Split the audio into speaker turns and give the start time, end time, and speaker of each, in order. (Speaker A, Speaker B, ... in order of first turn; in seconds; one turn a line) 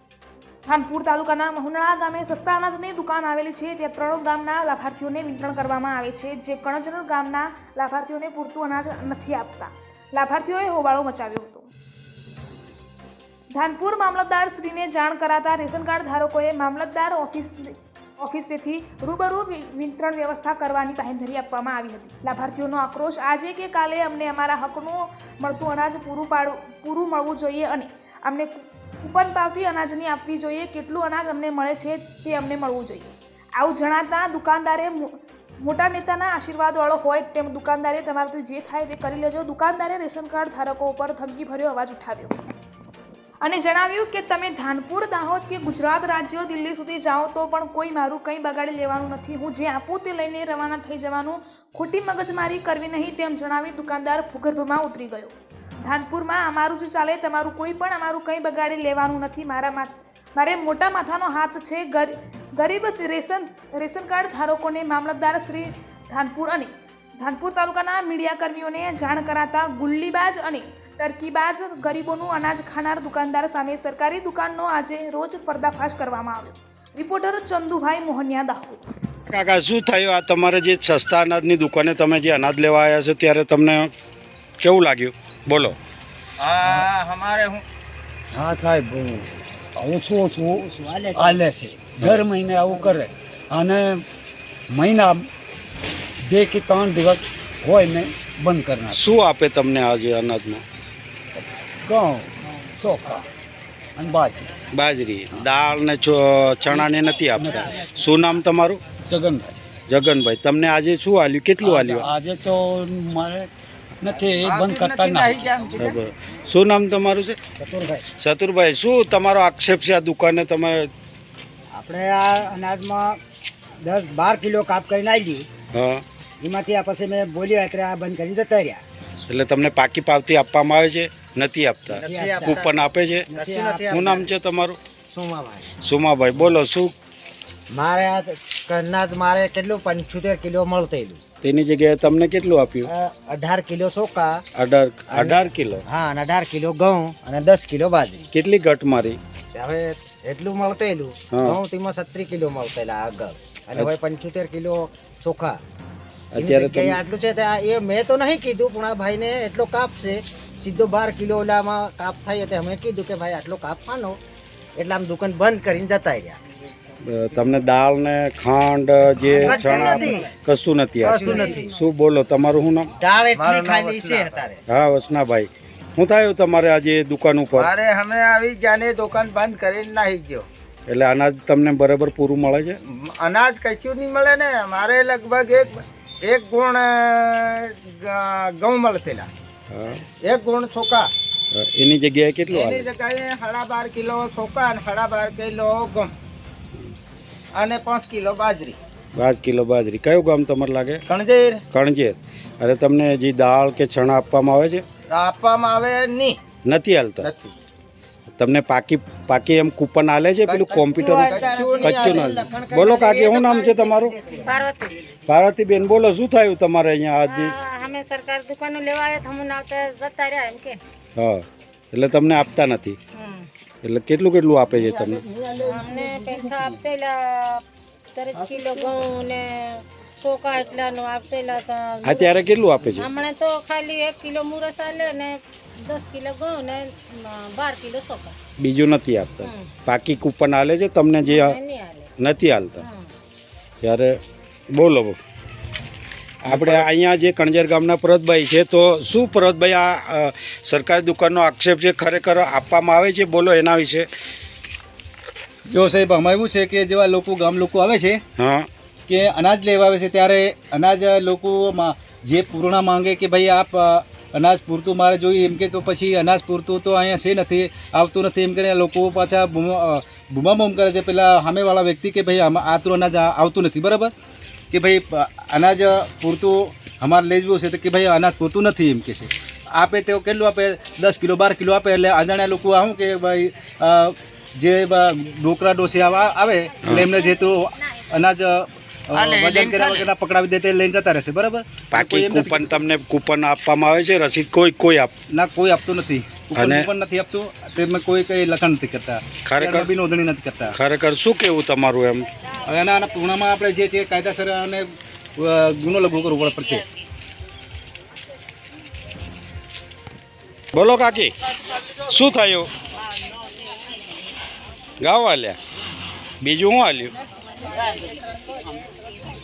Speaker A: 0.7-11.7
Speaker A: 13.5-42.4
Speaker A: 43.4-55.3
Speaker A: 55.9-78.8
Speaker B: 79.3-83.9
Speaker B: 84.6-85.8
Speaker C: 86.4-87.6
Speaker D: 86.6-86.9
Speaker D: 88.3-94.0
Speaker E: 90.6-91.4
Speaker D: 94.7-95.3
Speaker D: 96.2-99.0
Speaker B: 98.9-100.6
Speaker D: 101.8-103.2
Speaker D: 104.0-104.5
Speaker B: 104.7-108.8
Speaker D: 107.3-107.9
Speaker D: 109.0-109.5
Speaker B: 109.9-112.1
Speaker D: 111.6-115.5
Speaker C: 114.4-115.9
Speaker B: 115.8-117.4
Speaker E: 117.6-118.0
Speaker B: 118.2-120.9
Speaker E: 121.7-123.2
Speaker E: 123.8-125.5
Speaker B: 125.7-126.0
Speaker E: 126.4-128.8
Speaker B: 129.3-134.8
Speaker E: 132.0-134.3
Speaker C: 133.5-133.8
Speaker E: 135.1-135.7
Speaker B: 135.8-136.9
Speaker E: 137.7-141.2
Speaker B: 141.4-142.9
Speaker E: 142.8-144.4
Speaker B: 144.5-145.8
Speaker E: 145.1-148.3
Speaker B: 148.3-149.2
Speaker E: 149.5-155.6
Speaker B: 151.3-151.6
Speaker B: 156.3-157.0
Speaker E: 156.3-164.2
Speaker E: 164.8-166.4
Speaker B: 167.0-172.9
Speaker E: 169.4-170.3
Speaker E: 171.0-171.8
Speaker F: 171.3-171.6
Speaker E: 173.0-174.6
Speaker C: 173.3-174.3
Speaker B: 174.7-177.7
Speaker C: 177.6-180.5
Speaker B: 180.9-182.8
Speaker C: 182.8-189.3
Speaker B: 189.7-190.1
Speaker C: 190.1-191.1
Speaker B: 191.5-192.9
Speaker C: 192.5-196.1
Speaker C: 197.5-198.8
Speaker B: 199.2-201.0
Speaker C: 201.1-201.6
Speaker B: 201.7-204.8
Speaker C: 205.1-206.4
Speaker B: 206.6-207.3
Speaker C: 207.2-207.5
Speaker B: 208.4-214.1
Speaker C: 210.4-211.7
Speaker E: 210.7-214.6
Speaker F: 214.4-214.9
Speaker B: 215.3-217.5
Speaker F: 217.2-220.8
Speaker B: 221.2-223.0
Speaker F: 223.1-223.5
Speaker B: 223.8-225.2
Speaker F: 225.6-227.6
Speaker F: 228.1-238.3
Speaker B: 232.0-233.1
Speaker B: 238.6-241.6
Speaker F: 239.4-239.7
Speaker F: 241.2-242.1
Speaker B: 242.2-242.8
Speaker F: 242.8-243.1
Speaker B: 243.8-244.1
Speaker B: 244.8-245.2
Speaker B: 246.4-254.1
Speaker G: 246.5-246.9
Speaker G: 255.7-258.2
Speaker B: 258.4-258.7
Speaker G: 259.1-274.1
Speaker G: 274.7-292.8
Speaker B: 286.8-287.1
Speaker C: 289.1-290.1
Speaker B: 291.9-295.1
Speaker G: 295.3-300.8
Speaker B: 296.6-296.9
Speaker B: 299.4-299.9
Speaker B: 300.7-302.3
Speaker G: 302.6-306.9
Speaker B: 310.7-311.3
Speaker B: 312.0-312.7
Speaker B: 315.0-315.6
Speaker B: 316.4-317.1